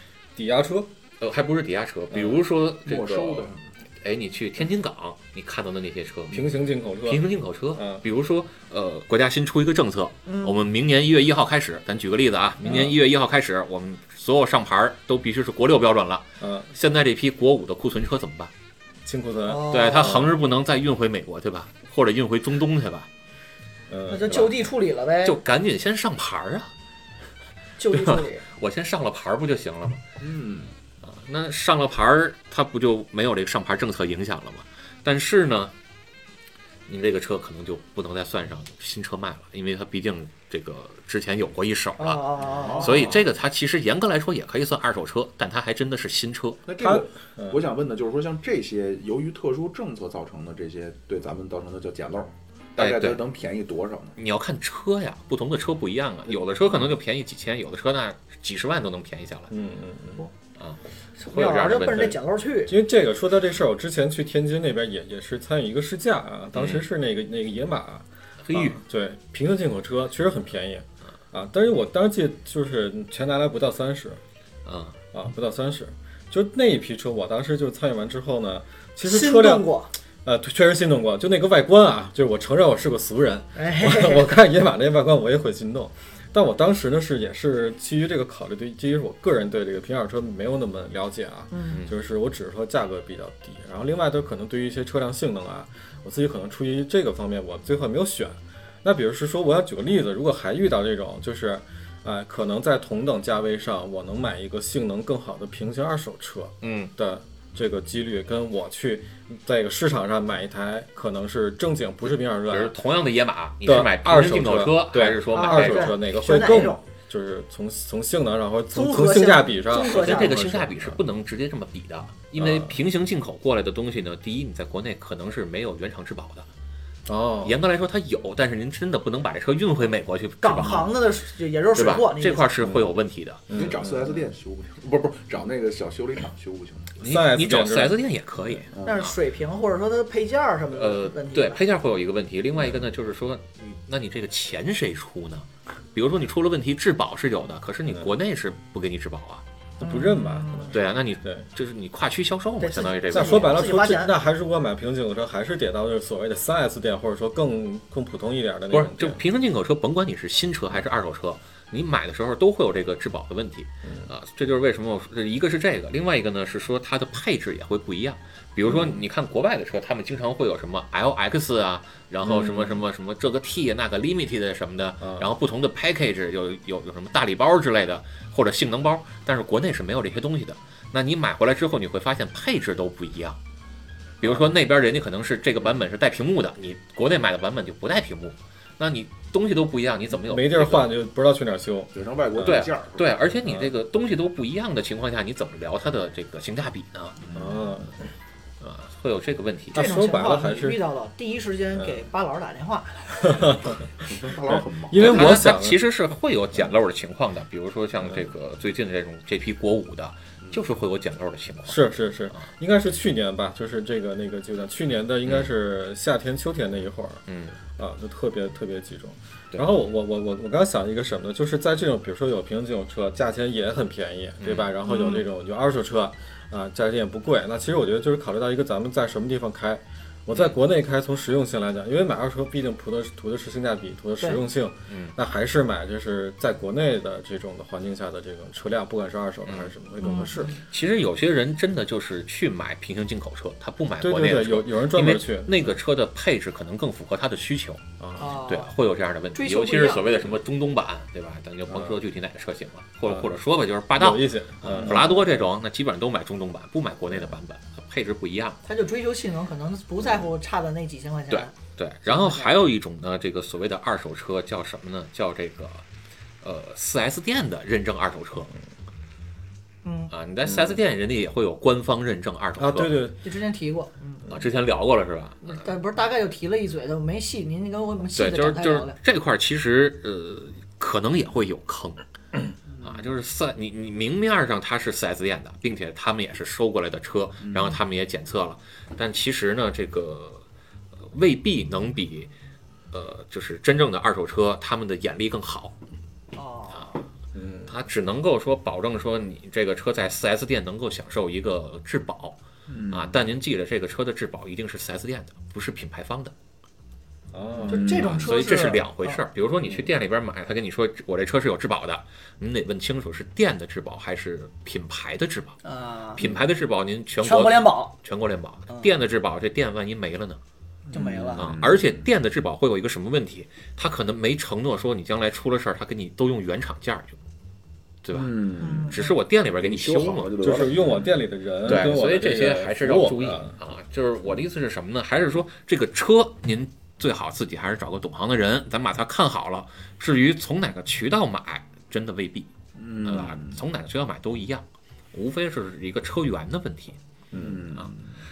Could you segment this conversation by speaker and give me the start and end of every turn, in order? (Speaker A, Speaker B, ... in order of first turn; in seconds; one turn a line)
Speaker A: 0.3-0.9
Speaker B: 1.2-18.5
Speaker A: 2.1-2.4
Speaker C: 2.8-3.6
Speaker A: 6.3-8.0
Speaker D: 10.2-10.6
Speaker A: 12.6-12.9
Speaker A: 16.4-16.7
Speaker A: 19.0-20.3
Speaker D: 19.4-20.3
Speaker B: 19.7-23.1
Speaker A: 23.9-24.3
Speaker D: 24.1-25.4
Speaker B: 24.2-24.5
Speaker B: 25.2-26.7
Speaker D: 27.8-28.4
Speaker B: 27.9-30.0
Speaker C: 30.2-30.7
Speaker B: 31.0-35.7
Speaker B: 36.9-46.6
Speaker D: 42.0-43.0
Speaker C: 42.4-43.2
Speaker C: 46.6-54.1
Speaker A: 46.8-47.6
Speaker B: 52.8-53.2
Speaker B: 54.2-59.5
Speaker A: 59.5-60.3
Speaker B: 60.6-62.2
Speaker D: 61.2-62.8
Speaker A: 62.7-74.2
Speaker B: 66.5-66.9
Speaker B: 68.4-68.8
Speaker B: 74.6-75.0
Speaker A: 75.1-79.7
Speaker D: 79.0-79.9
Speaker A: 80.2-112.7
Speaker D: 83.5-84.3
Speaker D: 91.5-91.8
Speaker B: 91.7-92.0
Speaker B: 106.6-106.9
Speaker B: 112.5-116.0
Speaker A: 113.6-121.0
Speaker D: 115.3-116.8
Speaker D: 118.7-120.4
Speaker B: 119.7-126.5
Speaker A: 122.4-122.7
Speaker A: 127.1-127.6
Speaker B: 127.4-130.9
Speaker D: 130.4-132.5
Speaker B: 131.7-133.4
Speaker A: 132.6-133.0
Speaker A: 133.5-134.2
Speaker C: 133.5-136.9
Speaker B: 137.0-139.1
Speaker A: 137.0-138.6
Speaker C: 138.7-139.1
Speaker D: 138.8-141.6
Speaker B: 140.7-149.4
Speaker A: 149.8-151.5
Speaker D: 149.8-150.8
Speaker B: 150.7-153.6
Speaker D: 152.6-154.1
Speaker A: 153.1-159.2
Speaker B: 158.7-183.4
Speaker A: 172.2-172.8
Speaker A: 175.0-175.3
Speaker B: 184.2-190.9
Speaker A: 190.1-192.6
Speaker C: 191.9-193.2
Speaker B: 192.4-197.2
Speaker A: 193.4-193.7
Speaker C: 197.2-197.8
Speaker A: 197.3-197.9
Speaker B: 198.6-199.8
Speaker A: 199.7-200.8
Speaker D: 199.7-203.6
Speaker A: 203.2-203.8
Speaker C: 204.0-205.2
Speaker A: 204.4-205.8
Speaker B: 204.9-211.8
Speaker A: 211.7-217.2
Speaker B: 215.2-215.5
Speaker B: 217.3-217.6
Speaker A: 217.8-240.6
Speaker B: 224.4-224.7
Speaker D: 224.8-225.2
Speaker B: 230.3-230.6
Speaker B: 234.9-235.1
Speaker B: 239.4-239.7
Speaker D: 240.0-240.6
Speaker B: 240.6-247.8
Speaker A: 244.0-245.7
Speaker A: 248.0-248.3
Speaker D: 248.2-248.7
Speaker B: 248.4-258.6
Speaker D: 249.3-250.1
Speaker A: 251.7-252.0
Speaker A: 253.9-255.5
Speaker C: 254.7-255.1
Speaker D: 258.6-261.5
Speaker B: 261.3-265.8
Speaker D: 262.1-262.5
Speaker B: 266.4-268.5
Speaker D: 269.8-270.1
Speaker B: 270.1-273.1
Speaker A: 270.4-270.8
Speaker A: 272.6-273.2
Speaker D: 273.2-274.2
Speaker B: 274.3-275.6
Speaker D: 275.4-279.0
Speaker B: 278.1-282.0
Speaker B: 282.8-290.4
Speaker C: 287.4-287.8
Speaker B: 291.0-292.3
Speaker B: 292.9-295.7
Speaker D: 296.3-297.0
Speaker A: 297.3-297.7
Speaker B: 297.7-302.4
Speaker C: 302.7-303.2
Speaker B: 302.9-306.3
Speaker A: 307.3-307.9
Speaker C: 307.6-308.3
Speaker D: 307.7-309.2
Speaker B: 308.0-315.6
Speaker D: 315.6-316.2
Speaker B: 316.1-320.4
Speaker D: 317.2-317.9
Speaker C: 320.9-322.0
Speaker D: 320.9-321.5
Speaker B: 321.4-327.2
Speaker B: 328.0-330.5
Speaker C: 328.1-331.1
Speaker D: 328.6-329.0
Speaker A: 330.4-333.5
Speaker B: 331.6-342.5
Speaker C: 342.8-343.6
Speaker B: 343.0-347.0
Speaker C: 347.3-348.1